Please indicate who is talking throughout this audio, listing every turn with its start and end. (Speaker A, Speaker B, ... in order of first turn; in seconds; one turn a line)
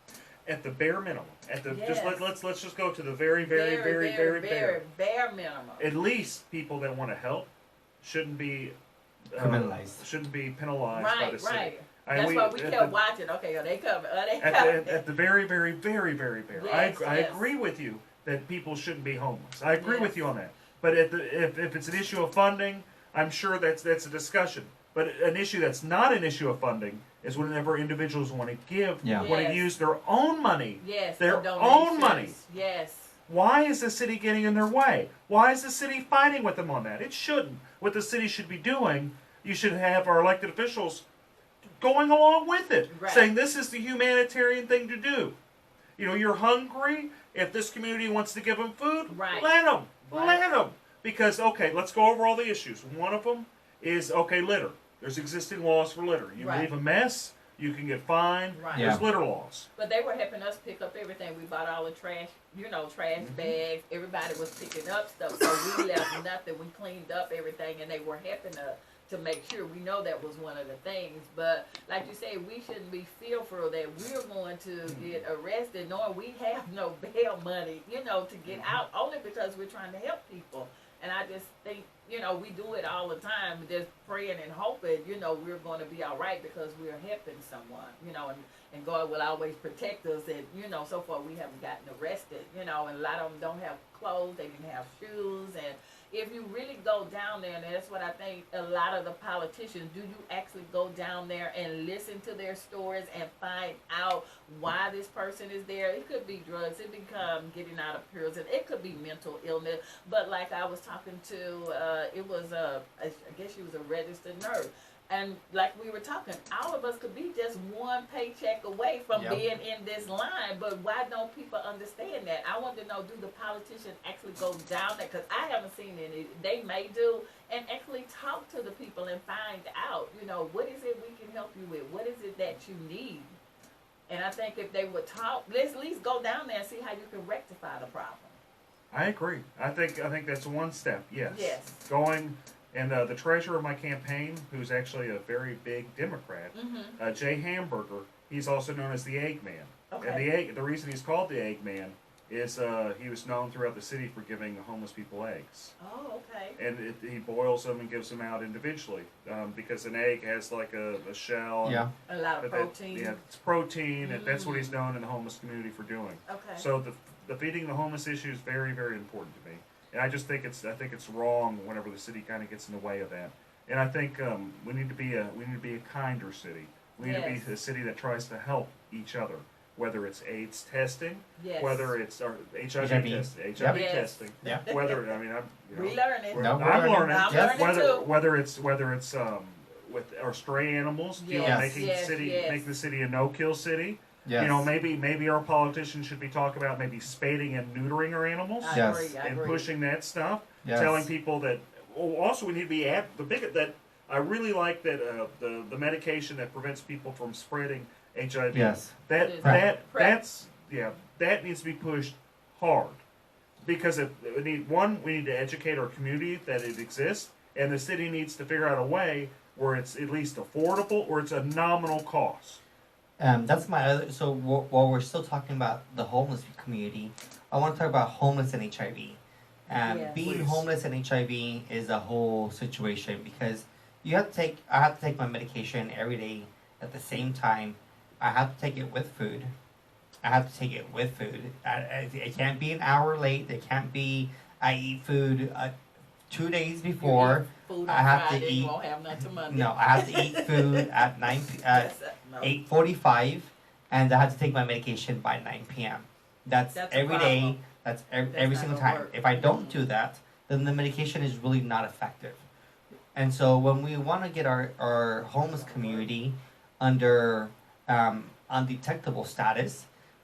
Speaker A: 0.5-4.8
Speaker B: 1.7-2.3
Speaker B: 3.5-5.9
Speaker A: 5.8-7.5
Speaker A: 8.0-8.7
Speaker A: 9.3-12.9
Speaker C: 9.3-10.0
Speaker B: 10.9-15.0
Speaker A: 14.4-32.4
Speaker B: 16.5-17.5
Speaker B: 19.7-20.3
Speaker C: 29.0-29.3
Speaker B: 29.2-29.7
Speaker B: 30.8-33.2
Speaker A: 33.3-41.0
Speaker A: 41.8-45.3
Speaker B: 42.9-43.3
Speaker A: 46.0-59.7
Speaker B: 49.1-49.5
Speaker B: 50.1-50.5
Speaker B: 56.4-56.7
Speaker B: 58.5-59.0
Speaker C: 58.7-59.0
Speaker B: 59.8-133.4
Speaker A: 63.2-63.5
Speaker A: 74.9-75.2
Speaker A: 78.5-78.8
Speaker C: 119.1-119.4
Speaker B: 134.1-138.4
Speaker A: 138.9-155.7
Speaker B: 141.3-141.8
Speaker B: 146.5-147.0
Speaker B: 149.9-150.3
Speaker B: 155.8-156.6
Speaker A: 156.6-161.9
Speaker C: 161.6-161.9
Speaker B: 162.1-163.2
Speaker A: 162.4-213.0
Speaker B: 164.0-164.8
Speaker B: 166.3-166.7
Speaker B: 177.0-177.5
Speaker B: 181.4-181.9
Speaker C: 182.8-183.8
Speaker B: 183.6-185.0
Speaker B: 185.7-188.1
Speaker C: 186.4-187.8
Speaker B: 191.2-192.7
Speaker C: 191.4-191.9
Speaker C: 194.2-194.7
Speaker B: 198.6-199.7
Speaker C: 198.7-199.2
Speaker C: 200.6-201.1
Speaker C: 208.5-209.6
Speaker B: 209.1-210.2
Speaker A: 213.6-222.6
Speaker C: 223.2-239.5
Speaker B: 229.8-230.3
Speaker A: 230.1-230.7
Speaker C: 240.2-245.7
Speaker C: 246.3-248.7
Speaker B: 247.0-252.6
Speaker C: 249.4-262.4
Speaker B: 256.7-257.6
Speaker B: 258.3-259.8
Speaker C: 263.1-269.9
Speaker B: 265.4-266.1